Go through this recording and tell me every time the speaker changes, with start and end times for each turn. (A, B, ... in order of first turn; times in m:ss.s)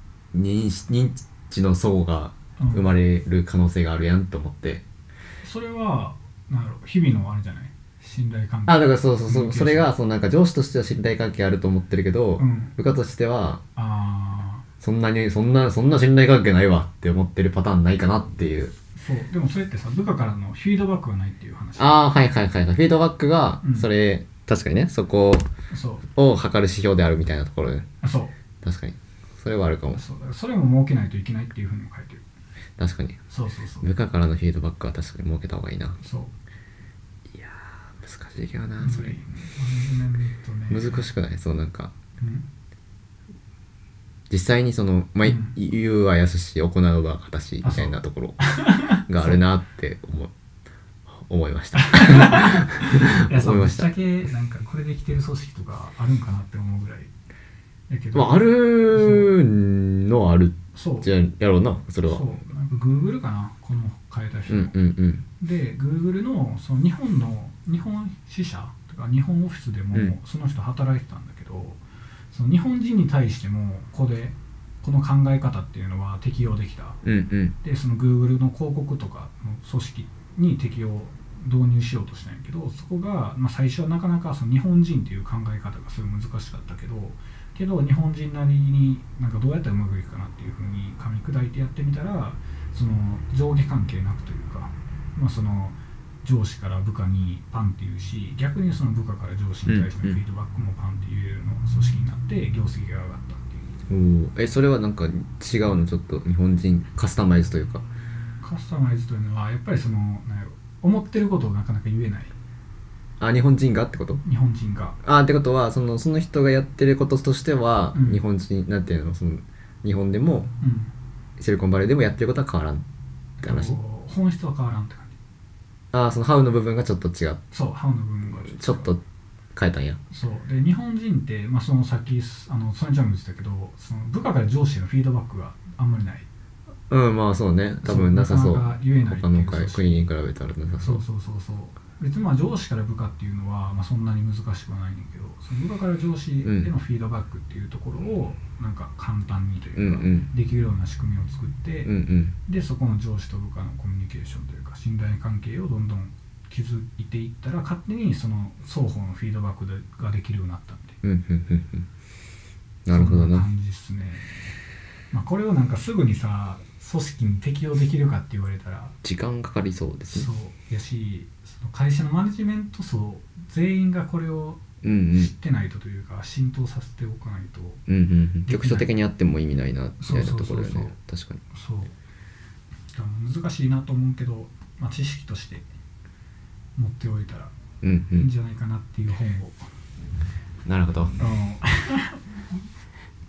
0:00.3-0:04.8 A
0:02.6-0:02.8 B
0:05.4-0:09.9 B
0:08.6-0:13.6 A
0:12.4-0:12.8 B
0:13.8-0:14.6 B
0:14.8-0:18.7 A
0:19.0-0:22.0 B
0:21.8-0:25.5 A
0:23.6-0:23.9 B
0:25.7-0:26.1 B
0:26.1-0:27.9 A
0:28.0-0:28.3 B
0:28.6-0:30.0 A
0:29.9-0:32.2 B
0:32.8-0:33.2 A
0:33.3-0:33.9 B
0:33.8-0:36.0 A
0:36.0-0:36.3 B
0:37.3-0:39.2 A
0:38.8-0:41.0 B
0:40.7-0:41.9 A
0:42.2-0:42.4 B
0:44.3-0:50.3 A
0:45.2-0:45.6 B
0:47.6-0:49.4 B
0:51.1-0:53.9 A
0:51.8-0:57.1 B
0:57.9-0:59.3 B
0:58.1-1:02.2 A
1:00.7-1:01.1 B
1:02.0-1:04.7 B
1:04.5-1:05.2 A
1:05.4-1:17.0 B
1:17.0-1:17.6 A
1:17.6-1:43.6 B
1:39.7-1:40.2 A
1:43.9-1:47.8 A
1:48.4-1:52.3 B
1:53.2-1:54.2 A
1:54.2-1:55.0 B
1:55.0-2:00.5 A
1:57.9-1:58.2 B
2:00.6-2:00.9 B
2:01.4-2:02.8 A
2:03.4-2:05.2 B
2:03.4-2:03.8 A
2:05.9-2:07.4 A
2:07.5-2:08.9 B
2:08.4-2:09.0 A
2:09.6-2:10.0 A
2:10.1-2:16.3 B
2:16.9-2:21.0 A
2:17.8-2:20.1 B
2:20.8-2:31.9 B
2:26.4-2:26.7 A
2:29.8-2:30.3 A
2:31.8-2:32.3 A
2:32.4-2:41.0 B
2:41.0-2:41.9 A
2:42.8-2:43.4 A
2:42.9-2:44.6 B
2:45.1-2:48.9 B
2:49.0-2:50.3 A
2:50.1-2:57.8 B
2:54.8-2:55.3 A
2:57.9-3:01.4 A
2:58.4-2:58.9 B
3:00.0-3:00.9 B
3:01.5-3:01.9 B
3:02.9-3:05.7 B
3:06.8-3:07.5 B
3:07.8-3:08.3 A
3:08.2-3:09.6 B
3:10.6-3:11.2 A
3:11.2-3:12.2 B